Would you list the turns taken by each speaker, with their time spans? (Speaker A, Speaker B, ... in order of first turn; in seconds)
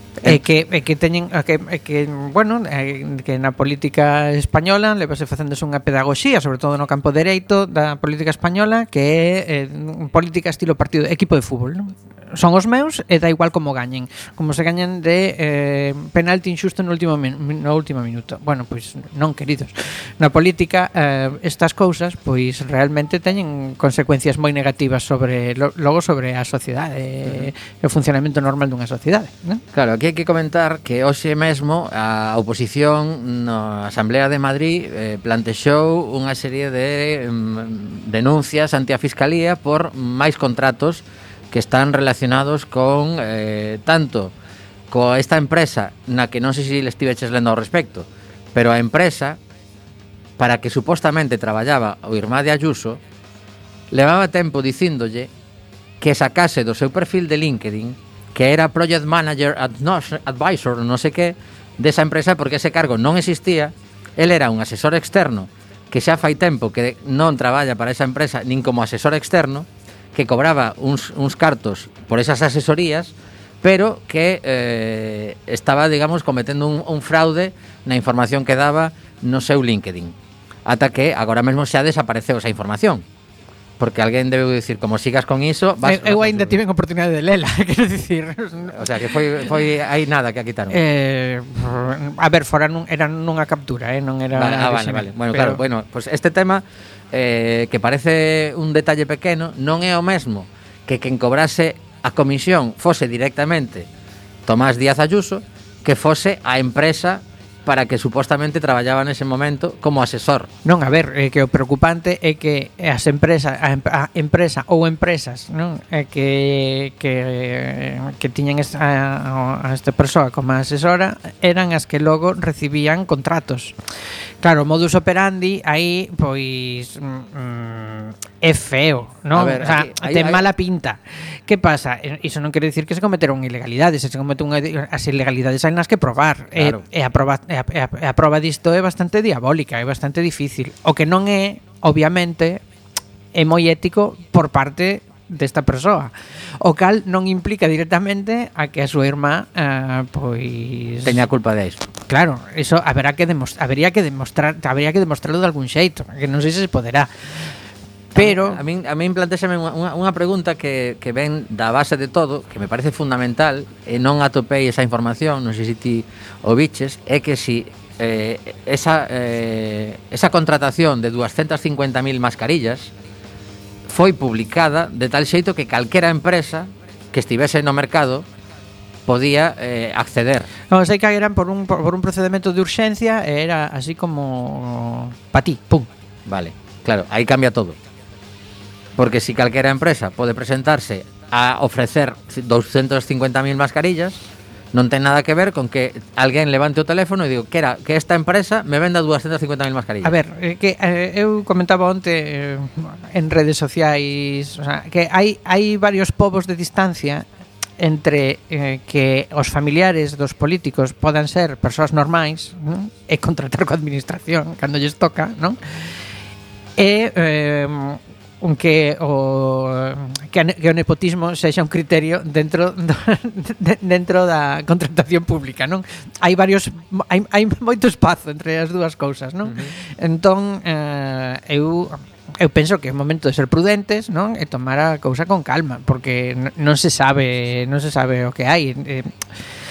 Speaker A: 0.2-29.6, 85.8-89.2, 90.7-95.6, 110.6-123.8, 124.4-142.6, 143.3-151.2, 152.1-157.5, 158.2-158.6, 180.7-185.9, 200.0-207.2, 207.8-215.6, 216.8-239.3
Speaker B: 29.7-44.3, 44.9-49.4, 50.4-53.0, 53.9-55.3, 56.0-83.0, 83.8-86.5, 88.7-90.8, 94.3-103.9, 104.5-110.5, 129.3-130.4, 136.5-136.8, 151.0-151.9, 158.1-172.9, 173.9-178.2, 179.1-180.5, 186.2-187.8, 189.0-194.2, 194.7-200.2, 229.5-229.7